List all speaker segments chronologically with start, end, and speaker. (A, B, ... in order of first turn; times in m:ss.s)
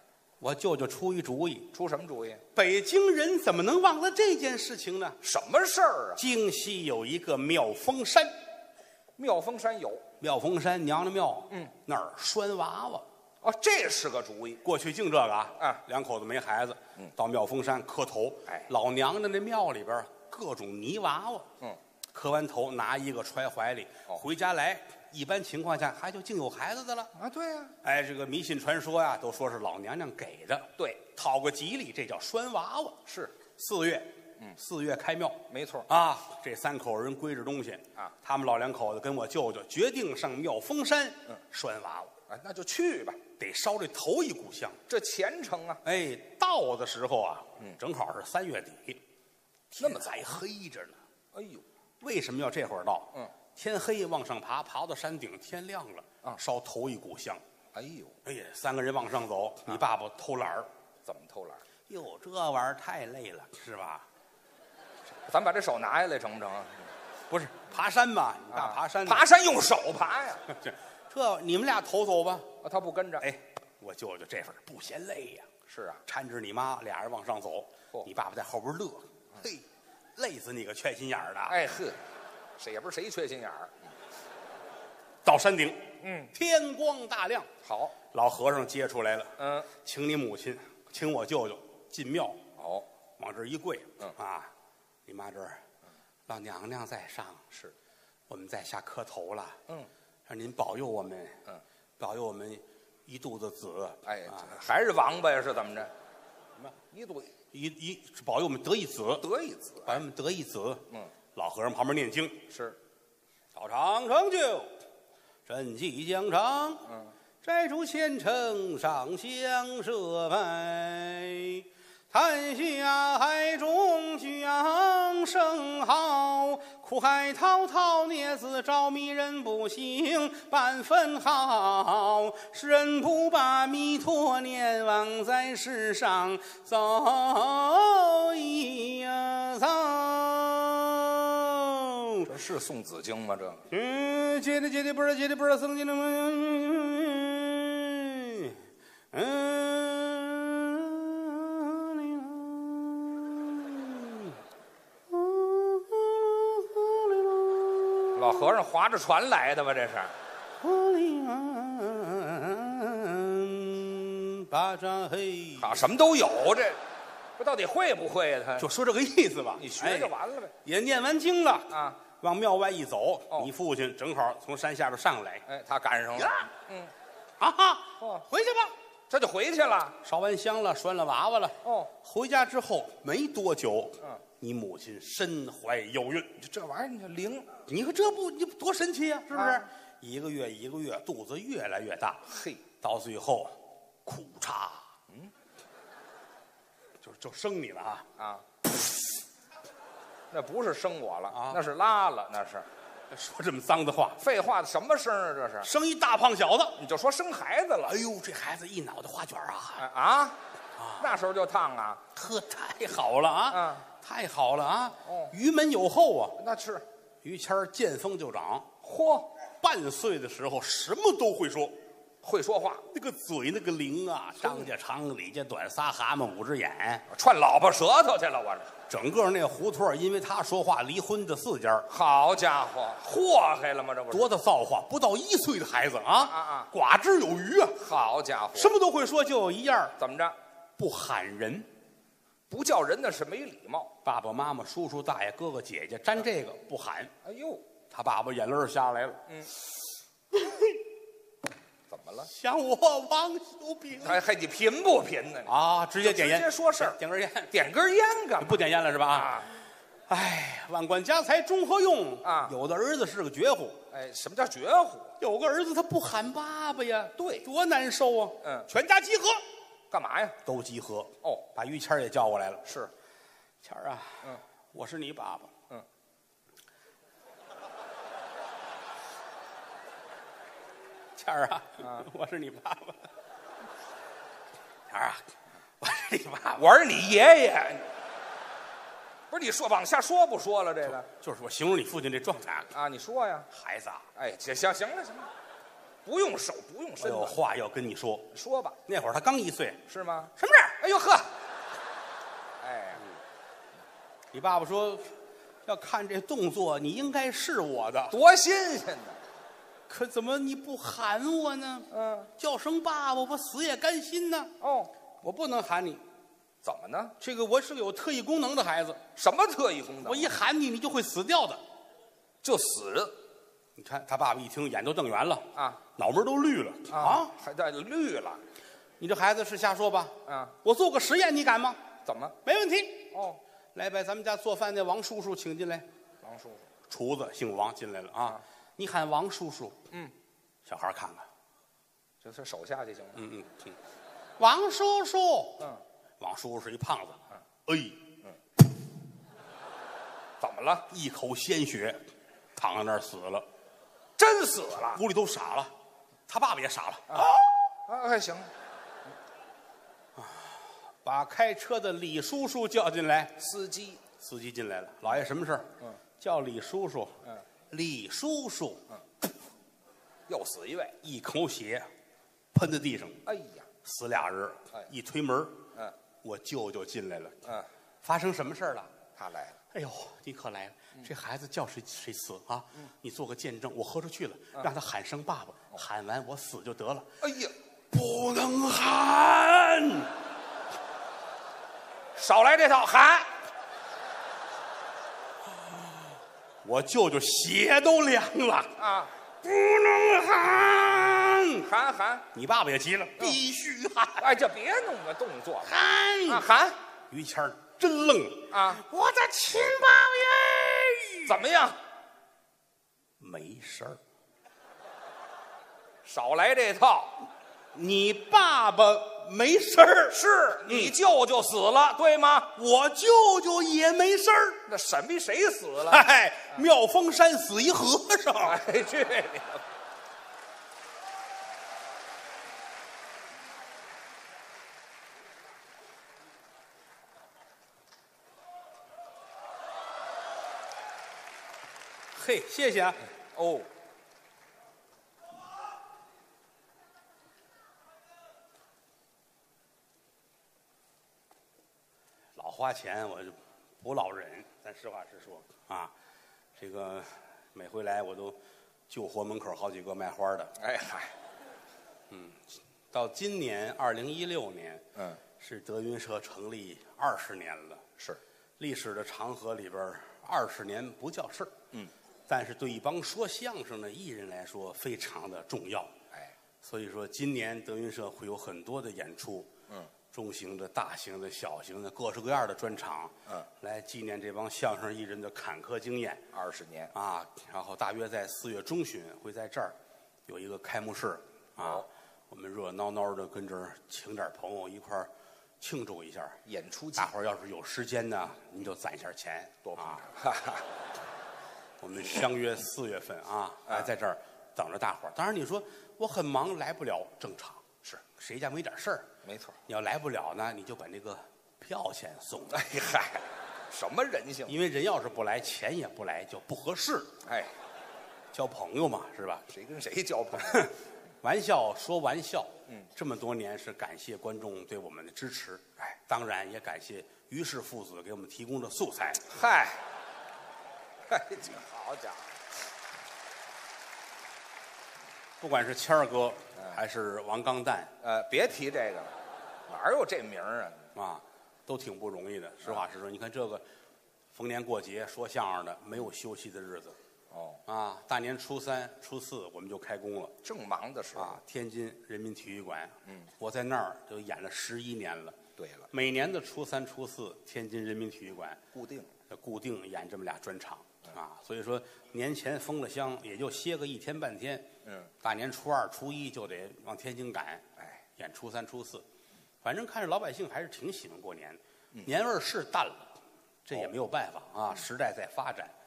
0:00.4-0:01.7 A
0:01.7-0:02.4 B
0:02.5-0:05.2 A
0:05.2-0:06.2 B
0:06.2-0:08.3 A
0:09.2-0:10.0 B
0:10.2-0:13.0 A
0:13.4-0:14.6 B
0:14.6-0:21.5 A
0:22.1-0:27.1 A
0:27.1-0:27.7 B
0:27.8-0:33.0 A
0:33.1-0:33.3 B
0:33.5-0:42.1 A
0:35.5-0:35.9 B
0:42.3-0:43.2 B
0:43.4-0:44.8 A
0:44.9-0:45.8 B
0:45.8-0:49.0 A
0:49.7-0:51.0 A
0:49.8-0:50.3 B
0:51.3-0:51.6 B
0:52.0-0:57.4 A
0:57.7-0:58.2 B
0:58.2-1:00.7 A
1:01.0-1:01.6 B
1:01.9-1:04.0 A
1:05.2-1:06.8 B
1:07.3-1:09.2 A
1:08.5-1:10.4 B
1:10.5-1:12.5 A
1:12.6-1:13.2 B
1:13.2-1:15.5 A
1:15.7-1:16.0 B
1:16.0-1:21.6 A
1:21.5-1:22.0 B
1:22.6-1:23.8 B
1:25.2-1:27.5 A
1:26.0-1:26.3 B
1:27.6-1:28.0 B
1:28.1-1:32.4 A
1:29.4-1:29.7 B
1:32.6-1:32.9 B
1:33.2-1:34.5 A
1:35.0-1:35.6 A
1:36.3-1:37.5 A
1:38.3-1:39.6 A
1:40.3-1:41.4 A
1:42.0-1:44.5 A
1:44.0-1:45.9 B
1:46.9-1:47.3 B
1:47.5-1:49.2 A
1:49.2-1:50.0 B
1:49.8-1:52.4 A
1:52.5-1:52.8 B
1:53.5-1:54.7 A
1:55.4-1:56.9 A
1:57.4-2:22.3 A
2:22.2-2:23.6 B
2:23.7-2:28.6 A
2:29.1-2:34.4 A
2:35.1-2:38.4 A
2:38.2-2:40.1 B
2:40.6-2:45.8 A
2:45.6-2:46.8 B
2:47.4-2:48.7 B
2:48.6-2:55.4 A
2:49.6-2:50.5 B
2:51.7-2:52.0 B
2:55.5-2:56.9 B
2:57.4-2:58.7 A
2:58.0-2:58.2 B
2:59.1-3:00.0 B
3:00.0-3:06.3 A
3:01.6-3:01.9 B
3:06.4-3:07.5 B
3:07.7-3:12.3 A
3:09.3-3:09.6 B
3:12.3-3:12.6 B
3:12.8-3:14.8 A
3:17.0-3:18.1 A
3:18.2-3:18.4 B
3:20.3-3:22.7 B
3:21.3-3:21.6 A
3:23.1-3:24.2 A
3:24.2-3:25.7 B
3:25.6-3:26.8 A
3:26.8-3:28.0 B
3:27.8-3:29.8 A
3:29.8-3:30.4 B
3:30.8-3:31.2 A
3:31.0-3:32.0 B
3:32.1-3:36.4 A
3:33.5-3:33.8 B
3:35.0-3:35.3 B
3:36.4-3:36.8 B
3:37.2-3:38.7 A
3:38.8-3:39.3 B
3:39.6-3:41.7 A
3:42.2-3:42.8 B
3:42.9-3:47.0 A
3:44.4-3:44.7 B
3:47.1-3:48.7 B
3:48.9-3:51.9 A
3:51.9-3:54.3 B
3:54.1-3:57.8 A
3:56.2-3:56.7 B
3:57.8-3:58.8 B
3:58.5-3:59.9 A
4:00.0-4:00.4 B
4:00.8-4:01.7 A
4:02.5-4:03.9 B
4:04.0-4:07.1 A
4:07.2-4:07.6 B
4:07.9-4:09.2 A
4:10.3-4:10.8 A
4:11.9-4:12.3 B
4:12.2-4:14.2 A
4:14.0-4:17.0 B
4:15.5-4:17.5 A
4:17.5-4:19.5 B
4:18.4-4:19.4 A
4:20.1-4:23.8 A
4:22.2-4:22.5 B
4:23.9-4:25.1 B
4:25.2-4:29.4 A
4:27.2-4:27.4 B
4:28.4-4:28.7 B
4:29.9-4:30.4 B
4:30.4-4:32.7 A
4:32.6-4:32.9 B
4:33.6-4:35.5 A
4:41.2-4:43.1 A
4:41.8-4:42.0 B
4:44.9-4:45.2 A
4:45.8-4:46.7 A
4:46.6-4:47.9 B
4:49.3-4:51.1 B
4:51.1-4:52.7 A
4:52.7-4:53.5 B
4:53.5-4:54.1 A
4:54.2-4:55.3 B
4:56.0-4:57.4 B
4:57.0-4:58.3 A
4:58.3-4:58.8 B
4:58.8-4:59.8 A
4:59.9-5:01.3 B
5:00.4-5:00.8 A
5:02.6-5:03.0 B
5:04.3-5:05.1 A
5:05.6-5:08.2 A
5:08.1-5:09.2 B
5:09.9-5:14.5 A
5:11.9-5:12.3 B
5:14.6-5:14.9 B
5:15.2-5:16.0 A
5:16.6-5:17.1 B
5:17.2-5:19.0 A
5:19.2-5:20.3 B
5:20.0-5:21.6 A
5:22.4-5:23.2 B
5:23.8-5:27.3 A
5:25.5-5:25.8 B
5:26.9-5:28.4 B
5:29.0-5:31.8 A
5:30.2-5:30.5 B
5:32.0-5:32.4 B
5:32.4-5:33.1 A
5:33.1-5:33.4 B
5:33.7-5:35.8 A
5:36.2-5:36.6 B
5:36.9-5:39.8 A
5:40.6-5:41.3 A
5:42.2-5:43.2 B
5:43.2-5:43.8 A
5:44.4-5:45.7 A
5:46.2-5:48.0 A
5:50.4-5:50.9 B
5:50.9-5:52.0 A
5:52.6-5:53.4 A
5:54.2-5:55.0 B
5:54.9-5:55.7 A
5:56.3-5:57.5 A
5:57.8-5:58.5 B
6:00.2-6:03.4 A
6:03.4-6:04.0 B
6:04.2-6:08.8 A
6:10.3-6:11.0 B
6:11.0-6:11.9 A
6:12.5-6:13.2 A
6:13.2-6:13.7 B
6:13.8-6:15.6 A
6:16.2-6:18.9 A
6:19.1-6:19.6 B
6:19.7-6:27.1 A
6:27.2-6:27.5 B
6:27.9-6:30.1 A
6:32.1-6:33.3 B
6:36.6-6:38.7 A
6:38.8-6:39.1 B
6:39.4-6:41.7 A
6:41.6-6:42.3 B
6:42.3-6:44.3 A
6:44.2-6:45.7 B
6:45.6-6:46.5 A
6:46.3-6:46.8 B
6:47.1-6:51.4 A
6:48.5-6:48.8 B
6:51.2-6:51.8 B
6:53.2-6:54.0 A
6:56.0-6:57.2 B
6:57.7-7:00.9 A
7:00.1-7:02.5 B
7:02.6-7:04.6 A
7:04.7-7:06.0 B
7:05.9-7:08.6 A
7:08.4-7:09.6 B
7:22.1-7:23.0 A
7:23.3-7:23.7 B
7:32.4-7:35.9 A
7:36.6-7:38.4 A
7:38.9-7:40.5 A
7:40.6-7:41.1 B
7:42.1-7:47.8 A
7:48.6-7:51.5 A
7:52.3-7:55.9 A
7:56.6-7:59.5 A
8:00.1-8:06.2 A
8:06.3-8:06.9 B
8:06.9-8:09.8 A
8:10.3-8:15.1 A
8:11.6-8:11.8 B
8:15.6-8:16.4 A
8:16.4-8:17.1 B
8:17.0-8:20.0 A
8:19.6-8:20.7 B
8:21.8-8:27.6 A
8:28.1-8:29.1 A
8:29.2-8:29.6 B
8:29.6-8:32.7 A
8:32.5-8:34.5 B
8:34.5-8:37.1 A
8:37.2-8:37.5 B
8:38.3-8:39.5 A
8:39.5-8:40.7 B
8:40.4-8:49.2 A
8:49.3-8:49.8 B
8:51.1-8:52.3 B
8:55.4-8:57.9 A
8:58.0-8:59.1 B
8:59.7-9:00.9 B
9:00.9-9:03.6 A
9:04.3-9:07.0 A
9:07.3-9:07.6 B
9:07.6-9:10.3 A
9:10.4-9:11.4 B
9:11.2-9:15.4 A
9:15.6-9:15.9 B
9:15.9-9:18.6 A
9:18.7-9:19.1 B
9:19.3-9:24.7 A
9:25.2-9:29.0 A
9:29.6-9:35.7 A